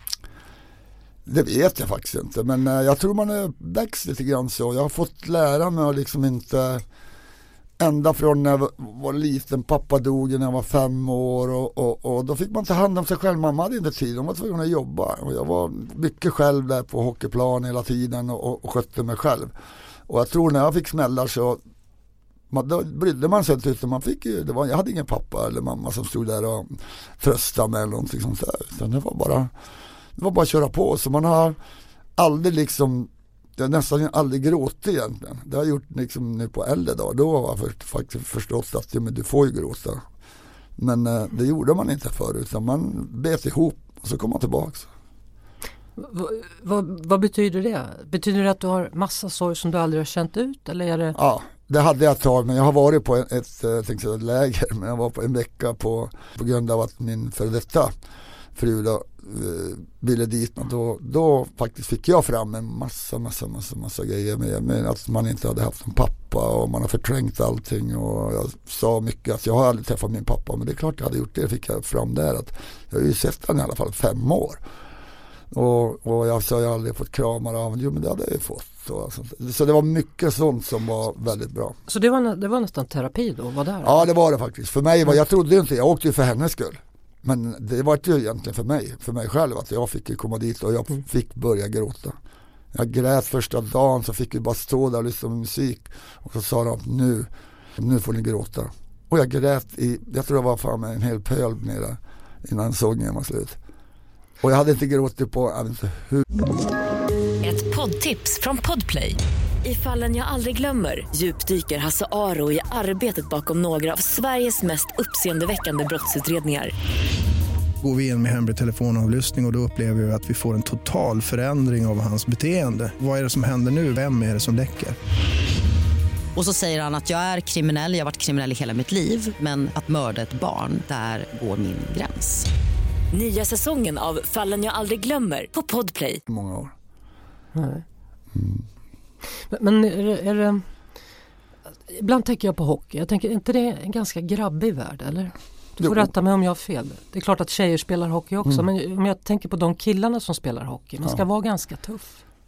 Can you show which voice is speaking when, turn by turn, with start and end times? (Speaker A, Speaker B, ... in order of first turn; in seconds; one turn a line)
Speaker A: 1.2-6.8
Speaker A: 7.8-19.5
Speaker A: 20.1-21.6
Speaker A: 22.5-29.5
Speaker A: 30.1-31.6
Speaker A: 32.2-40.0
Speaker A: 40.8-44.9
Speaker B: 46.0-51.1
Speaker A: 51.1-57.9
Speaker A: 58.5-74.6
Speaker A: 75.5-81.8
Speaker B: 81.9-84.1
Speaker A: 83.8-92.2
Speaker A: 92.7-103.6
Speaker A: 104.4-106.2
Speaker C: 107.4-116.7
Speaker D: 117.8-125.0
Speaker E: 126.3-132.5
Speaker C: 133.1-136.2
Speaker A: 136.3-136.7
Speaker B: 137.5-137.8
Speaker A: 138.3-138.6
Speaker B: 139.4-140.7
Speaker B: 141.9-152.2
Speaker A: 145.8-146.1